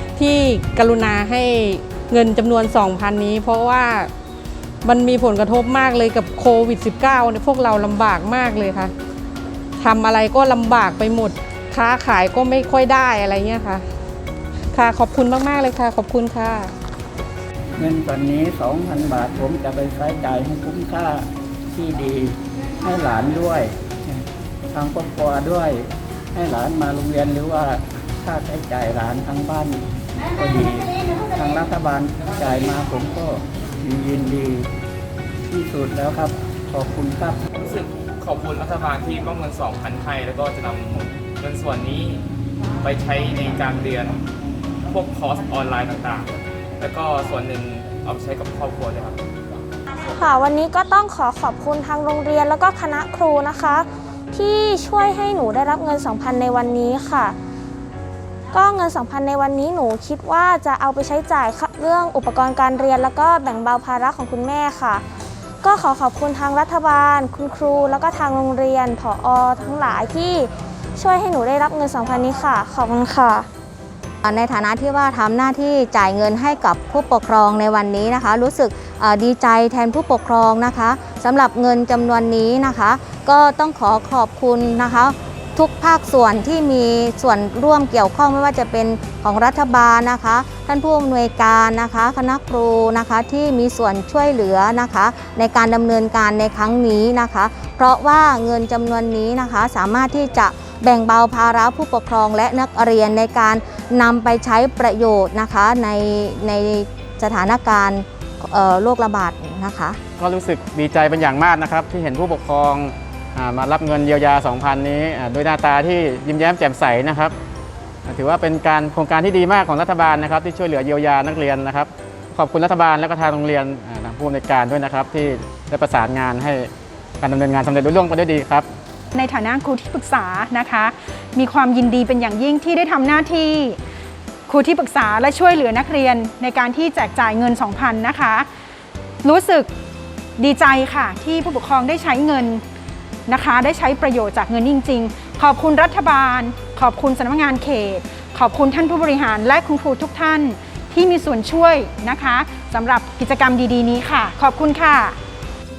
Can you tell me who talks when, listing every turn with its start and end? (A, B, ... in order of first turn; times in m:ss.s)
0:00.2-0:04.1 A
0:04.8-0:08.9 A
0:09.8-0:13.8 A
0:14.7-0:16.7 A
0:17.8-0:29.9 B
0:30.4-0:34.7 B
0:35.5-0:37.4 B
0:37.6-0:42.2 C
0:42.8-0:44.2 C
0:44.9-0:46.3 C
0:46.8-0:49.2 C
0:50.1-0:57.4 D
0:58.5-1:05.0 D
1:05.6-1:13.5 D
1:14.2-1:50.0 E
1:50.2-1:57.4 F
1:58.1-2:08.7 F
2:09.1-2:13.8 G
2:14.5-2:18.5 G
2:19.2-2:19.7 G
2:20.4-2:22.6 G
2:23.3-2:35.2 G